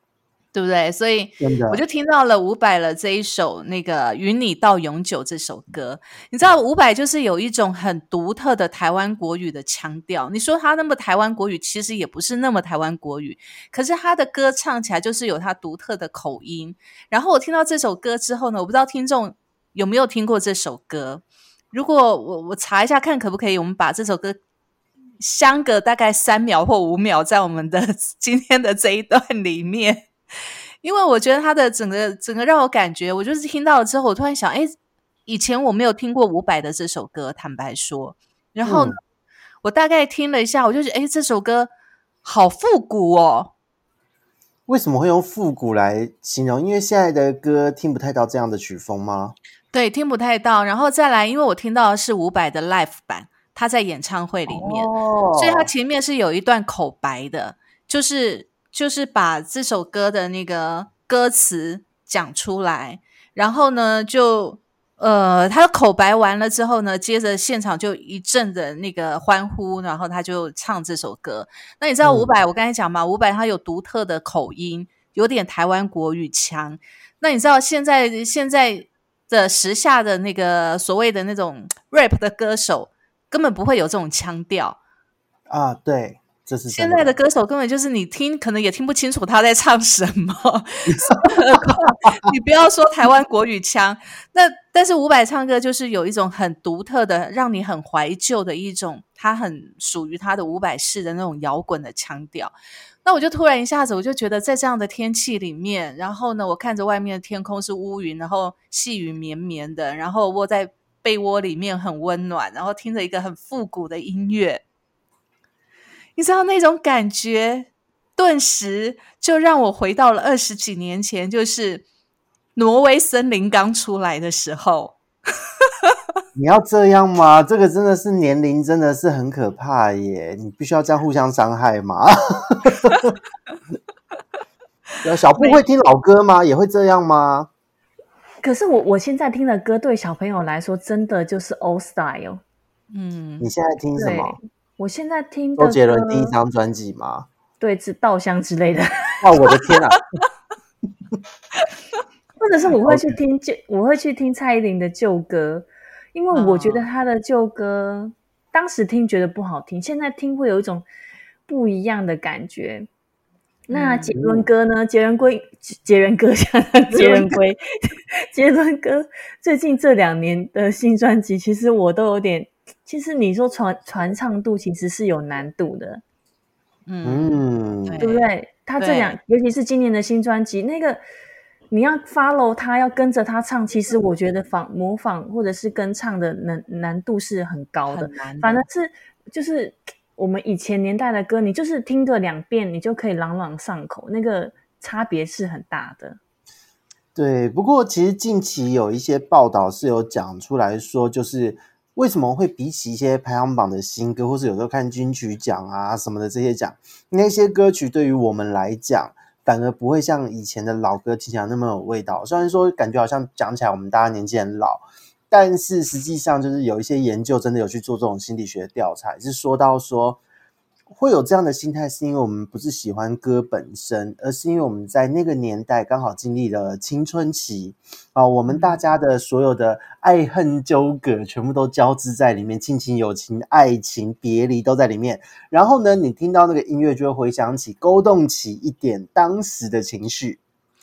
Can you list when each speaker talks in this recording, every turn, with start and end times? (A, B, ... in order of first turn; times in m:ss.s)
0:00.5-0:24.4 A
0:01.4-0:01.8 B
0:25.2-0:30.1 A
0:30.8-0:34.7 A
0:35.2-0:39.0 A
0:38.6-0:39.0 B
0:39.6-0:41.7 A
0:42.2-0:43.5 A
0:44.7-0:49.4 B
0:49.7-1:24.8 A
0:54.5-0:55.7 B
1:12.0-1:12.3 B
1:25.5-1:27.1 B
1:26.7-1:42.5 A
1:30.9-1:31.8 B
1:43.0-1:54.6 A
1:56.2-2:01.8 A
2:02.6-2:05.0 A
2:06.4-2:13.1 B
2:15.0-2:17.5 B
2:15.4-2:15.6 A
2:18.4-2:22.4 C
2:22.9-2:23.5 A
2:23.4-2:24.4 B
2:24.0-2:26.3 C
2:25.6-2:27.3 B
2:27.6-2:29.6 C
2:29.2-2:30.0 B
2:32.4-2:40.8 C
2:32.8-2:33.1 B
2:36.3-2:36.8 A
2:41.5-2:42.9 C
2:43.7-2:56.0 C
2:43.7-2:44.1 A
2:44.2-2:44.4 B
2:47.0-2:47.4 A
2:56.9-2:58.3 A
2:57.0-2:58.0 B
2:58.0-3:01.0 C
2:58.8-2:59.2 A
3:01.7-3:16.2 C
3:07.9-3:08.6 A
3:17.1-3:40.2 B
3:40.9-4:00.4 B
3:48.5-3:48.8 A